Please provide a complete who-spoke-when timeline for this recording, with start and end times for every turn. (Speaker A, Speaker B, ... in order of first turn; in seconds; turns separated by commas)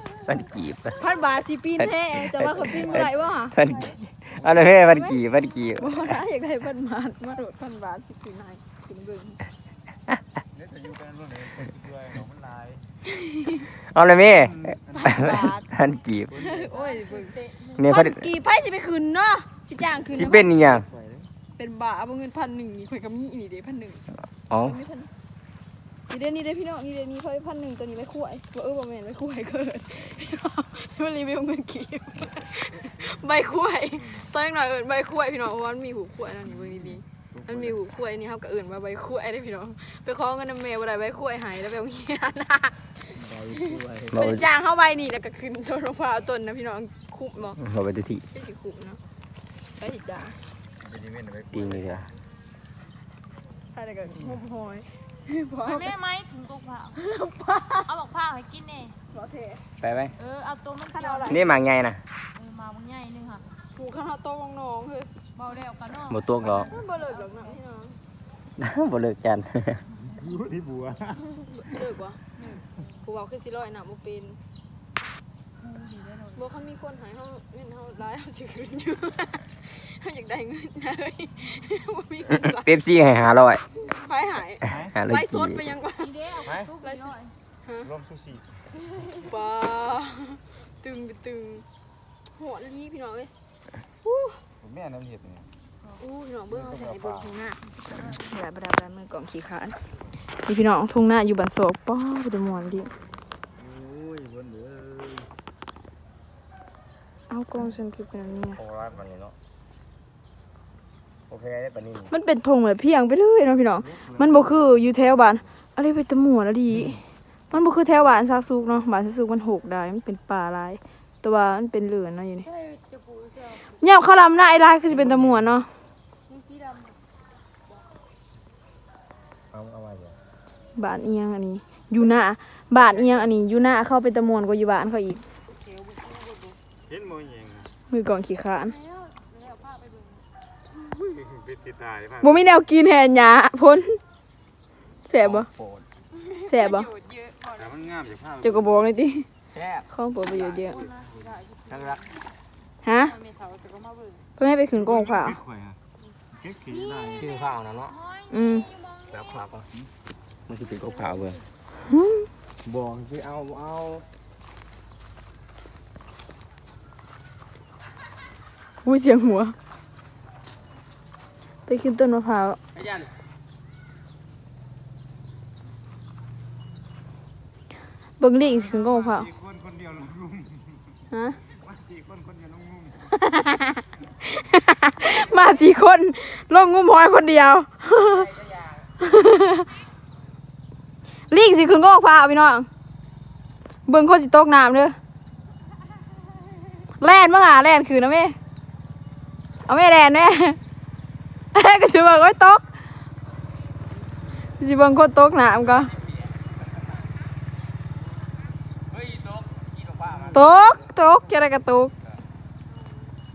Speaker A: 0.3-1.0, Speaker B: 1.0-3.6, Speaker A: 1.8-6.1, Speaker C: 2.6-3.3, Speaker C: 4.3-5.0, Speaker B: 4.9-5.2, Speaker B: 5.7-9.4, Speaker C: 10.5-12.8, Speaker B: 13.1-13.7, Speaker A: 13.9-16.3, Speaker C: 14.2-15.4, Speaker B: 14.9-15.7, Speaker B: 16.3-17.4, Speaker C: 16.3-16.7, Speaker D: 16.7-17.8, Speaker A: 17.8-18.3, Speaker B: 17.9-20.5, Speaker A: 20.1-20.9, Speaker C: 20.4-21.3, Speaker B: 21.6-25.1, Speaker A: 24.5-24.8, Speaker B: 26.1-42.8, Speaker C: 36.5-37.7, Speaker A: 43.2-44.5, Speaker B: 44.1-47.6, Speaker A: 47.6-48.2, Speaker B: 48.3-49.0, Speaker B: 49.8-50.4, Speaker C: 50.8-52.1, Speaker A: 51.5-52.1, Speaker B: 53.7-55.9, Speaker D: 55.6-57.0, Speaker B: 57.0-57.9, Speaker D: 57.9-59.0, Speaker B: 59.1-59.6, Speaker A: 59.8-60.1, Speaker D: 60.2-61.6, Speaker B: 60.9-61.4, Speaker A: 61.3-62.0, Speaker D: 62.3-63.5, Speaker B: 63.7-65.1, Speaker D: 65.3-67.6, Speaker A: 66.1-66.7, Speaker B: 66.5-68.0, Speaker A: 68.6-69.8, Speaker C: 70.1-71.4, Speaker B: 71.5-72.2, Speaker D: 72.4-72.7, Speaker B: 73.0-74.4, Speaker D: 75.6-76.5, Speaker B: 76.4-82.8, Speaker A: 82.3-83.6, Speaker B: 83.8-86.1, Speaker C: 84.7-84.9, Speaker A: 84.9-85.6, Speaker D: 86.0-87.3, Speaker B: 86.8-87.1, Speaker C: 87.8-88.5, Speaker B: 89.2-91.7, Speaker B: 92.3-93.3, Speaker B: 94.0-94.4, Speaker C: 94.6-95.5, Speaker B: 96.0-99.8, Speaker C: 96.5-97.3, Speaker B: 100.5-102.9, Speaker C: 103.6-105.3, Speaker B: 107.3-108.6, Speaker A: 108.6-109.3, Speaker A: 111.3-112.1, Speaker B: 112.1-122.5, Speaker C: 113.8-114.5, Speaker D: 122.4-123.8, Speaker B: 123.7-125.7, Speaker D: 126.3-127.0, Speaker A: 129.5-130.2, Speaker B: 130.8-135.2, Speaker D: 135.5-136.6, Speaker C: 136.9-137.7, Speaker B: 137.9-138.8, Speaker D: 138.6-140.3, Speaker C: 141.0-142.4, Speaker B: 142.2-144.0, Speaker B: 145.1-145.5, Speaker A: 145.2-145.8, Speaker D: 146.1-147.7, Speaker B: 146.5-146.9, Speaker C: 147.5-148.8, Speaker B: 148.4-149.3, Speaker A: 149.5-150.8, Speaker B: 149.9-150.8, Speaker D: 150.7-152.1, Speaker A: 151.7-152.0, Speaker B: 152.8-153.1, Speaker D: 153.0-154.3, Speaker B: 154.4-155.4, Speaker C: 154.7-155.8, Speaker C: 156.3-157.3, Speaker D: 156.7-159.1, Speaker A: 157.2-157.9, Speaker B: 158.3-158.7, Speaker A: 159.1-159.7, Speaker A: 160.5-161.4, Speaker D: 160.7-161.2, Speaker B: 161.9-162.3, Speaker A: 162.7-164.1, Speaker B: 168.8-169.6, Speaker B: 171.7-172.6, Speaker A: 172.8-173.1, Speaker B: 178.2-179.3, Speaker C: 178.5-180.8, Speaker B: 181.1-181.4, Speaker C: 181.6-183.1, Speaker B: 183.1-188.3, Speaker A: 188.1-188.8, Speaker B: 189.0-189.7, Speaker B: 191.3-192.7, Speaker B: 193.9-195.0, Speaker B: 197.0-198.4, Speaker B: 199.7-200.6, Speaker B: 201.5-202.7, Speaker B: 204.6-205.9, Speaker A: 208.9-210.6, Speaker B: 210.3-211.9